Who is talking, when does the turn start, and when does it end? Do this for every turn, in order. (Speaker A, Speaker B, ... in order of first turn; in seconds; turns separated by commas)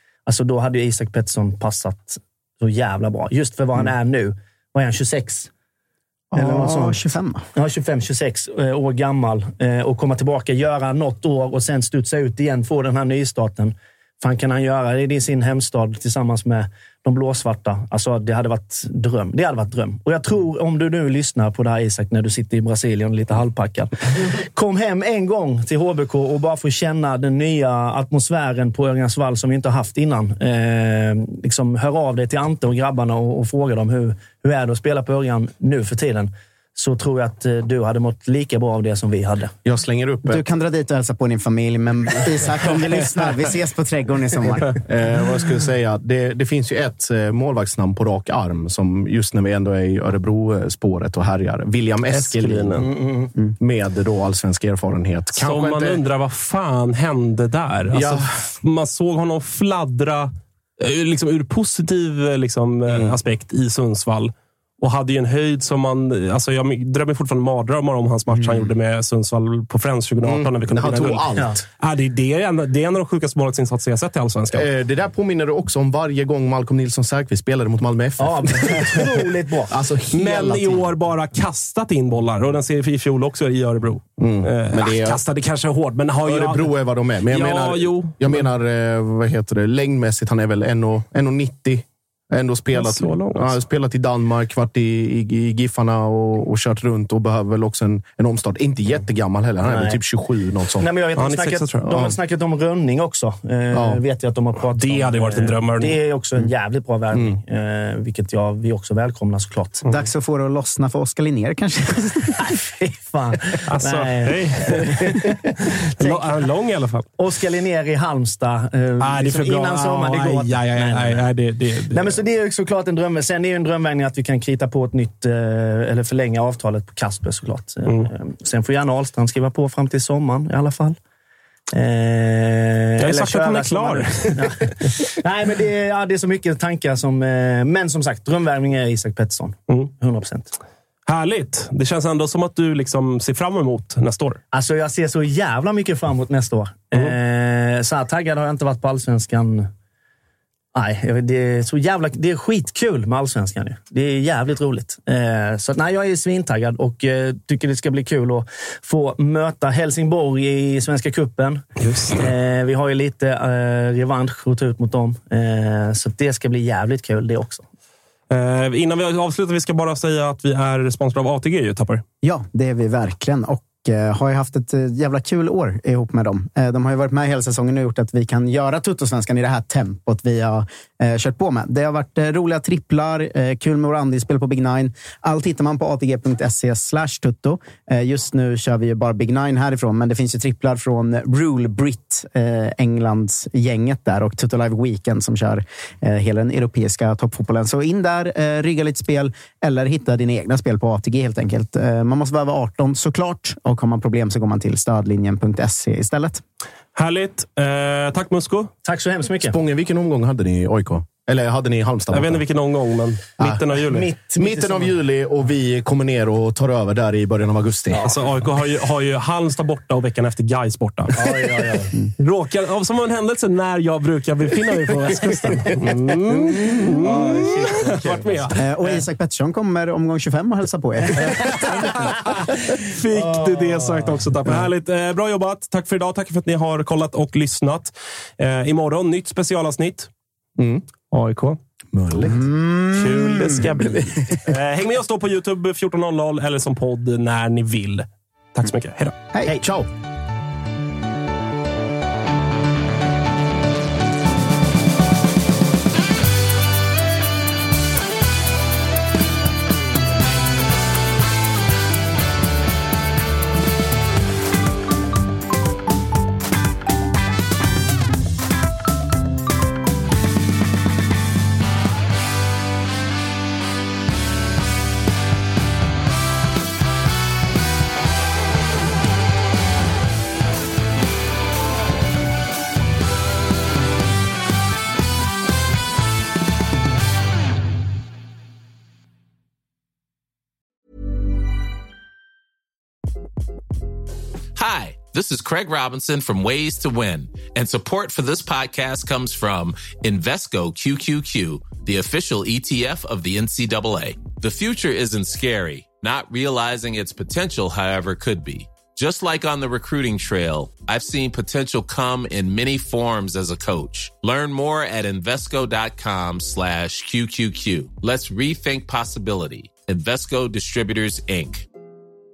Speaker A: 0.2-5.5, Speaker B: 6.3-7.4, Speaker A: 6.3-7.0, Speaker A: 7.5-39.5, Speaker C: 39.6-40.4, Speaker B: 40.2-44.7, Speaker C: 44.8-52.9, Speaker D: 52.1-52.8, Speaker A: 52.8-53.3, Speaker C: 53.6-56.0, Speaker D: 55.3-71.3, Speaker C: 57.9-58.2, Speaker C: 62.9-63.1, Speaker C: 70.2-71.6, Speaker A: 71.4-71.6, Speaker D: 71.8-74.7, Speaker C: 74.5-79.1, Speaker A: 78.2-79.7, Speaker C: 79.7-80.9, Speaker D: 80.1-86.7, Speaker C: 84.2-85.2, Speaker C: 86.2-100.9, Speaker D: 87.2-88.4, Speaker D: 92.7-93.5, Speaker A: 99.6-100.0, Speaker A: 100.8-109.8, Speaker D: 101.2-101.8, Speaker C: 101.8-102.1, Speaker C: 103.7-104.0, Speaker D: 104.7-106.0, Speaker B: 109.9-112.5, Speaker A: 112.5-116.3, Speaker D: 113.7-115.3, Speaker D: 115.9-117.1, Speaker A: 117.2-121.3, Speaker D: 119.0-122.2, Speaker A: 121.9-131.0, Speaker A: 131.7-140.5, Speaker D: 133.0-134.8, Speaker D: 141.1-144.4, Speaker A: 144.5-149.7, Speaker A: 150.7-167.6, Speaker D: 161.8-162.2, Speaker D: 168.3-172.0, Speaker B: 172.2-206.4, Speaker D: 206.9-208.7, Speaker A: 208.8-209.6, Speaker C: 209.4-212.4, Speaker D: 212.1-214.1, Speaker C: 213.4-213.6, Speaker A: 213.9-215.0, Speaker C: 214.3-218.1, Speaker D: 218.0-221.2, Speaker A: 221.1-221.9, Speaker D: 222.2-229.0, Speaker A: 227.0-228.1, Speaker B: 228.5-231.7, Speaker D: 231.3-232.2, Speaker D: 232.8-240.1, Speaker C: 240.6-240.8, Speaker D: 241.1-241.6, Speaker C: 241.9-242.5, Speaker B: 242.3-243.8, Speaker D: 242.9-249.1, Speaker C: 249.5-249.9, Speaker E: 294.6-321.6